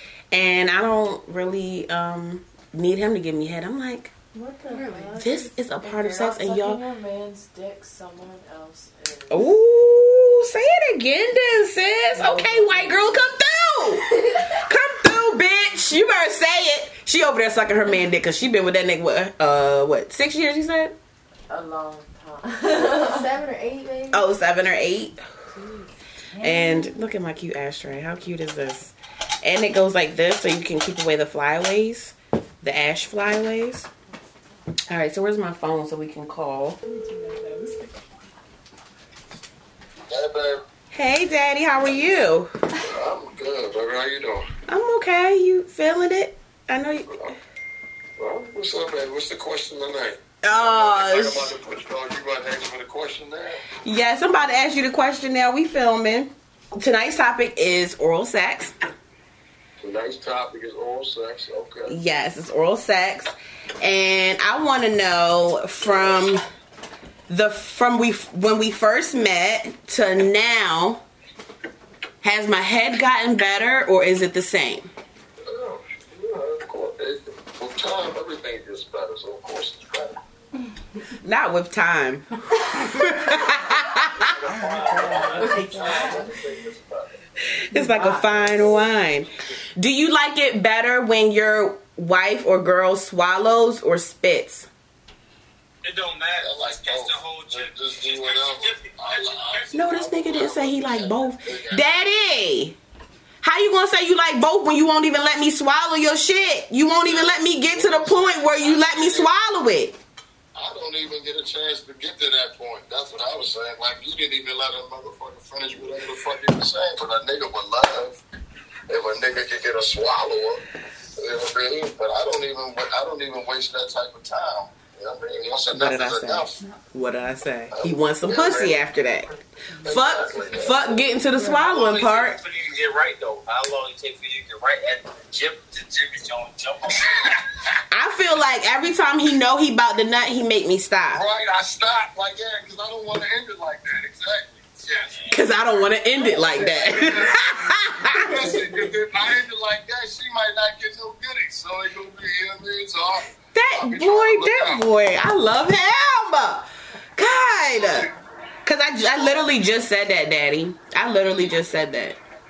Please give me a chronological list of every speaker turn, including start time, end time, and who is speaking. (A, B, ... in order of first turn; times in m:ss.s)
0:00.3-0:04.1 A
0:04.4-0:05.5 B
0:04.7-0:05.3 C
0:05.2-0:06.8 A
0:05.8-0:09.4 C
0:09.3-0:21.0 A
0:21.5-0:23.2 C
0:22.7-0:24.3 B
0:24.1-0:25.3 A
0:25.5-0:26.6 C
0:26.4-0:33.9 A
0:34.9-0:36.8 A
0:36.8-0:38.0 C
0:40.1-0:40.6 D
0:40.9-0:42.5 A
0:42.8-0:44.5 D
0:44.7-0:47.4 A
0:48.2-0:53.7 D
0:50.4-0:51.5 A
0:53.8-0:58.7 A
0:59.8-1:02.0 D
1:01.9-1:06.4 A
1:07.3-1:11.0 A
1:12.2-1:14.9 A
1:15.4-1:20.2 D
1:21.2-1:24.3 A
1:23.3-1:27.2 D
1:24.6-1:26.3 C
1:24.6-1:25.6 E
1:25.0-1:26.3 B
1:27.7-1:34.7 A
1:27.8-1:28.3 C
1:35.8-1:39.7 E
1:36.4-1:41.9 D
1:39.7-1:42.8 A
1:43.4-1:50.0 A
1:47.0-1:49.3 D
1:50.6-1:58.2 D
1:58.9-2:00.6 D
2:01.2-2:06.6 D
2:05.7-2:12.4 A
2:07.7-2:08.9 D
2:09.8-2:11.1 D
2:11.4-2:11.6 C
2:11.6-2:17.3 E
2:17.9-2:21.2 A
2:21.1-2:25.1 D
2:25.3-2:28.6 A
2:26.2-2:34.9 D
2:33.5-2:38.1 A
2:37.8-2:38.1 D
2:38.6-2:42.2 A